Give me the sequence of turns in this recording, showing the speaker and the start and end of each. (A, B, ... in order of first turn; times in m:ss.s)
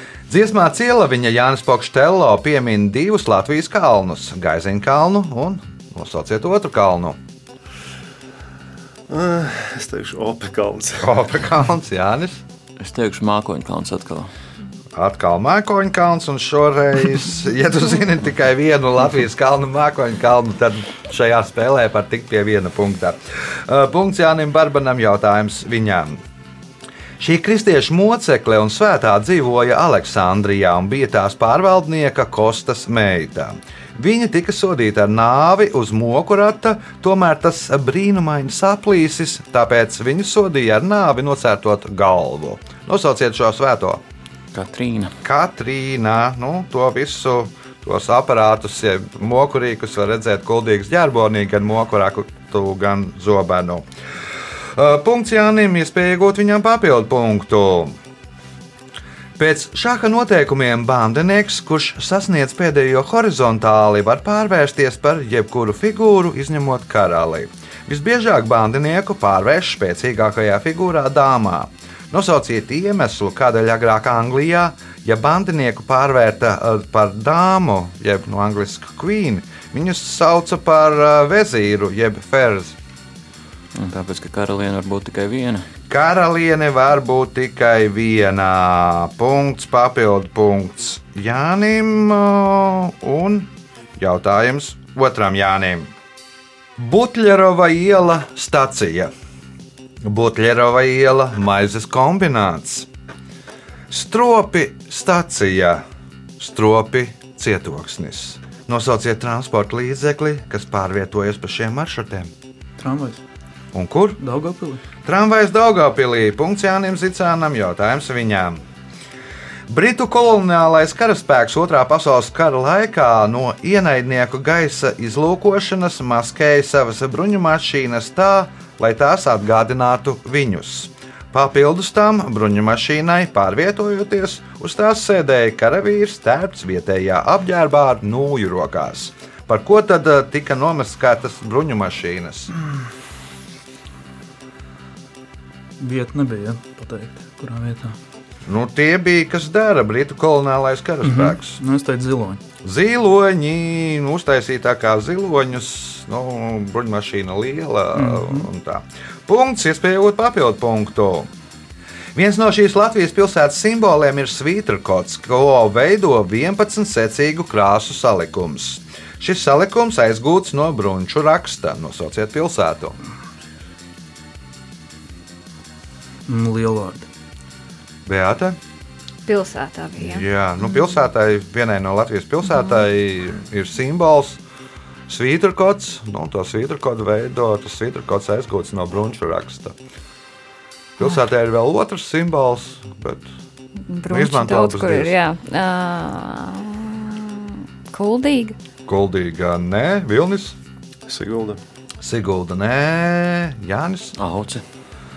0:00.3-0:07.2 A
0:09.1-0:11.2 B
0:11.0-0:12.4 A
0:12.8-0:14.3 C
0:14.9-0:26.2 A
0:27.2-0:44.0 A
0:44.5-0:45.1 C
0:45.2-0:53.8 A
0:54.7-0:58.0 A
0:59.4-1:22.8 A
1:23.7-1:25.7 C
1:25.9-1:35.9 A
1:36.8-1:39.1 A
1:40.0-1:42.9 A
1:43.9-1:45.8 A
1:46.4-1:52.3 A
1:52.8-1:53.2 D
1:53.7-1:54.2 A
1:54.2-1:54.8 D
1:55.0-1:58.6 A
1:59.7-2:22.5 A
2:25.8-2:28.0 D
2:28.5-2:31.6 A
2:31.0-2:32.4 D
2:32.6-2:41.3 A
2:37.9-2:38.5 D
2:42.1-2:53.0 A
2:56.2-2:57.1 D
2:58.0-2:58.6 A
2:59.2-3:00.2 E
3:00.0-3:04.4 A
3:05.1-3:09.8 A
3:11.0-3:13.3 A
3:13.9-3:18.6 E
3:14.1-3:15.1 A
3:18.8-3:20.6 A
3:21.1-3:21.6 B
3:22.0-3:24.2 A
3:24.2-3:24.6 C